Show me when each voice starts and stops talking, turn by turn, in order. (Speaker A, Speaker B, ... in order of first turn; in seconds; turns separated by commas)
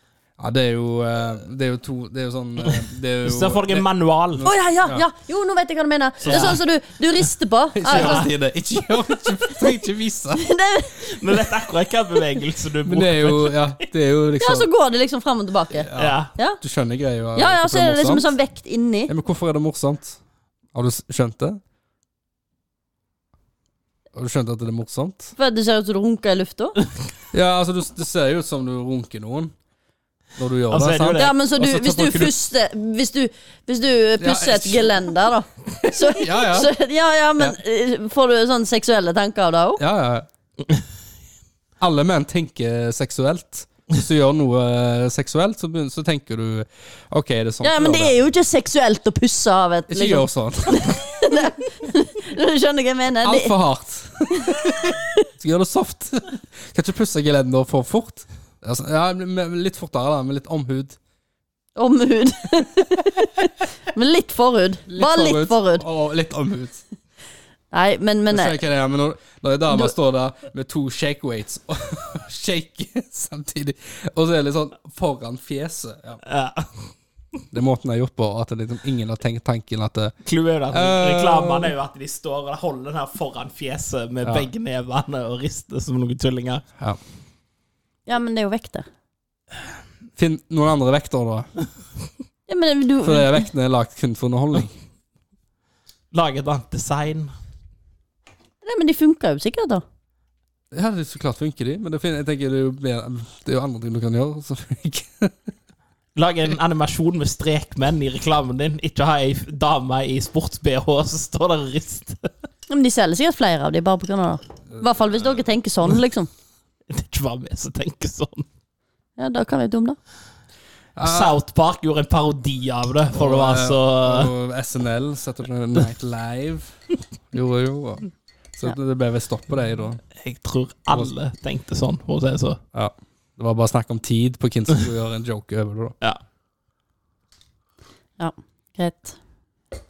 Speaker A: 0.4-5.0, Speaker B: 2.6-4.5, Speaker C: 4.4-8.3, Speaker B: 6.2-6.6, Speaker A: 7.7-10.5, Speaker B: 7.9-8.3, Speaker C: 10.3-11.2, Speaker B: 11.1-13.8, Speaker A: 12.8-14.7, Speaker C: 14.4-16.6, Speaker A: 15.7-18.3, Speaker B: 15.9-16.3, Speaker C: 17.3-19.1, Speaker A: 19.1-20.2, Speaker A: 20.7-21.6, Speaker A: 24.1-25.3, Speaker C: 25.4-26.8, Speaker A: 27.3-29.5, Speaker A: 30.4-32.3, Speaker B: 30.7-31.3, Speaker C: 31.1-39.8, Speaker A: 34.2-35.0, Speaker A: 35.8-36.7, Speaker A: 39.8-40.3, Speaker A: 41.8-48.1, Speaker C: 47.6-53.5, Speaker A: 49.9-51.0, Speaker A: 53.2-61.0, Speaker C: 61.8-65.8, Speaker A: 64.9-66.8, Speaker C: 67.7-68.5, Speaker A: 68.3-76.2, Speaker B: 76.2-76.9, Speaker A: 77.5-80.1, Speaker B: 80.2-86.6, Speaker A: 80.7-81.7, Speaker A: 84.2-84.5, Speaker C: 88.1-88.8, Speaker A: 90.2-91.5, Speaker C: 92.5-93.5, Speaker A: 93.0-94.7, Speaker B: 96.1-97.3, Speaker C: 98.6-99.8, Speaker A: 100.7-105.3, Speaker B: 106.2-112.3, Speaker C: 112.7-116.3, Speaker B: 116.9-118.5, Speaker C: 119.2-120.0, Speaker A: 121.0-121.3, Speaker B: 121.0-124.3, Speaker A: 123.1-126.7, Speaker A: 127.3-130.0, Speaker B: 130.2-132.6, Speaker A: 132.7-135.9, Speaker C: 138.2-139.2